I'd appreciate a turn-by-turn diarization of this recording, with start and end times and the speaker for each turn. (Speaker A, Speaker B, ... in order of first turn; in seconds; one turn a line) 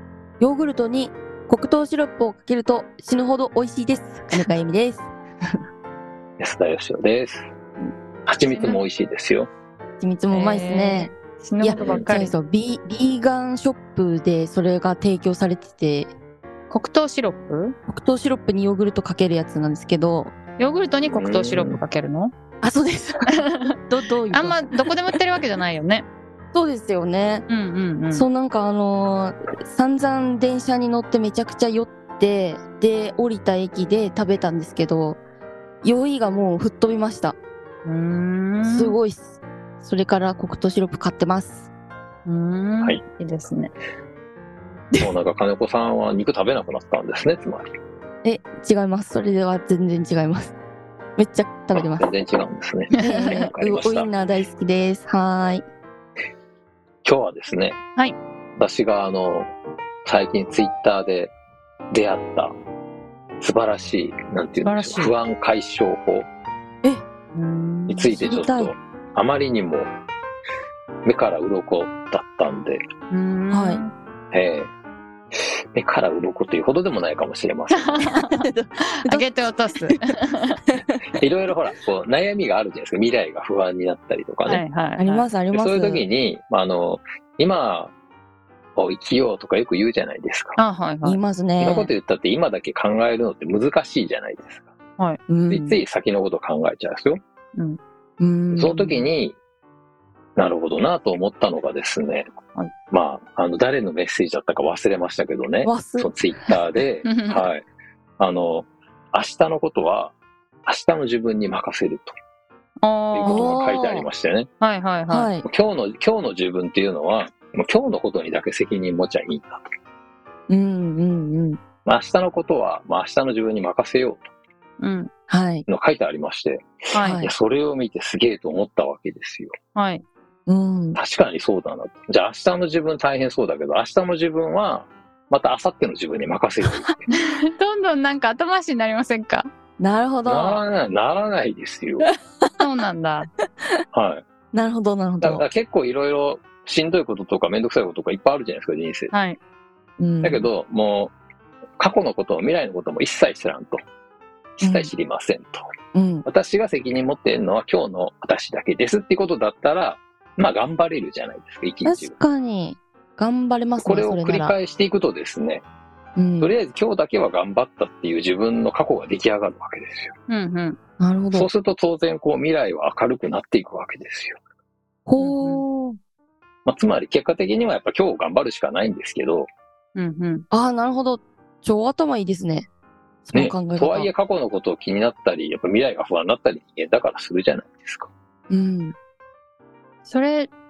Speaker A: 0.4-5.1
Speaker B: 6.4-7.5
Speaker B: 8.3-9.5
Speaker C: 8.4-8.8
Speaker A: 10.0-16.1
Speaker C: 10.3-12.3
Speaker B: 11.7-12.1
Speaker C: 16.7-17.7
Speaker A: 17.9-20.3
Speaker C: 20.6-22.3
Speaker B: 21.1-21.8
Speaker A: 22.6-24.8
Speaker C: 24.3-26.1
Speaker A: 26.5-27.5
Speaker C: 27.5-28.3
Speaker A: 28.1-35.2
Speaker A: 35.8-37.4
Speaker C: 37.8-39.0
Speaker A: 38.6-41.7
Speaker C: 42.2-43.7
Speaker B: 45.0-47.7
Speaker A: 48.2-50.5
Speaker A: 51.2-52.1
Speaker B: 51.7-54.1
Speaker C: 52.9-53.5
Speaker A: 53.0-55.6
Speaker B: 57.0-57.8
Speaker B: 58.6-59.5
Speaker B: 60.0-61.3
Speaker B: 61.9-62.5
Speaker B: 63.4-66.3
Speaker C: 64.6-65.1
Speaker C: 67.3-68.1
Speaker B: 67.9-69.9
Speaker A: 68.1-68.7
Speaker B: 71.0-72.8
Speaker C: 73.1-73.9
Speaker A: 73.5-73.8
Speaker B: 74.3-74.7
Speaker B: 75.3-78.1
Speaker C: 77.7-78.4
Speaker A: 78.0-80.0
Speaker C: 79.0-80.6
Speaker A: 80.7-81.0
Speaker B: 81.2-84.6
Speaker C: 84.5-85.3
Speaker A: 85.0-86.0
Speaker B: 85.5-87.9
Speaker B: 88.8-90.6
Speaker C: 90.6-91.2
Speaker A: 91.0-91.9
Speaker B: 91.6-94.6
Speaker A: 95.3-95.8
Speaker B: 95.5-97.2
Speaker A: 98.2-99.0
Speaker B: 98.5-99.4
Speaker B: 100.4-102.3
Speaker B: 102.9-107.6
Speaker A: 105.6-106.1
Speaker C: 107.0-107.5
Speaker B: 108.2-110.1
Speaker B: 110.7-112.1
Speaker C: 112.8-113.6
Speaker B: 113.1-114.5
Speaker A: 113.2-114.1
Speaker C: 114.6-115.3
Speaker A: 115.1-115.4
Speaker B: 115.4-119.7
Speaker A: 120.5-121.6
Speaker B: 121.8-124.3
Speaker C: 124.8-125.1
Speaker A: 125.3-125.7
Speaker B: 125.7-129.5
Speaker C: 126.9-127.2
Speaker A: 127.0-127.3
Speaker C: 129.7-130.0
Speaker A: 130.5-131.0
Speaker B: 130.9-137.0
Speaker A: 136.7-136.9
Speaker C: 137.1-139.5
Speaker A: 139.8-140.6
Speaker B: 140.2-142.1
Speaker A: 142.0-142.6
Speaker C: 142.6-143.3
Speaker B: 143.9-144.2
Speaker A: 144.5-145.4
Speaker B: 145.2-149.1
Speaker C: 149.1-149.4
Speaker A: 150.0-150.5
Speaker B: 150.2-151.1
Speaker B: 151.8-153.8
Speaker B: 154.6-155.7
Speaker A: 154.6-154.9
Speaker A: 155.9-156.2
Speaker B: 156.2-162.2
Speaker A: 161.8-164.5
Speaker B: 163.8-165.6
Speaker A: 166.2-166.5
Speaker B: 166.4-170.1
Speaker C: 170.3-170.8
Speaker A: 171.0-171.5
Speaker B: 171.3-174.4
Speaker A: 175.1-176.0
Speaker C: 175.2-175.6
Speaker B: 176.7-179.5
Speaker C: 179.9-180.4
Speaker A: 180.5-182.7
Speaker A: 183.2-184.1
Speaker B: 183.3-188.1
Speaker A: 188.5-188.9
Speaker C: 190.0-190.5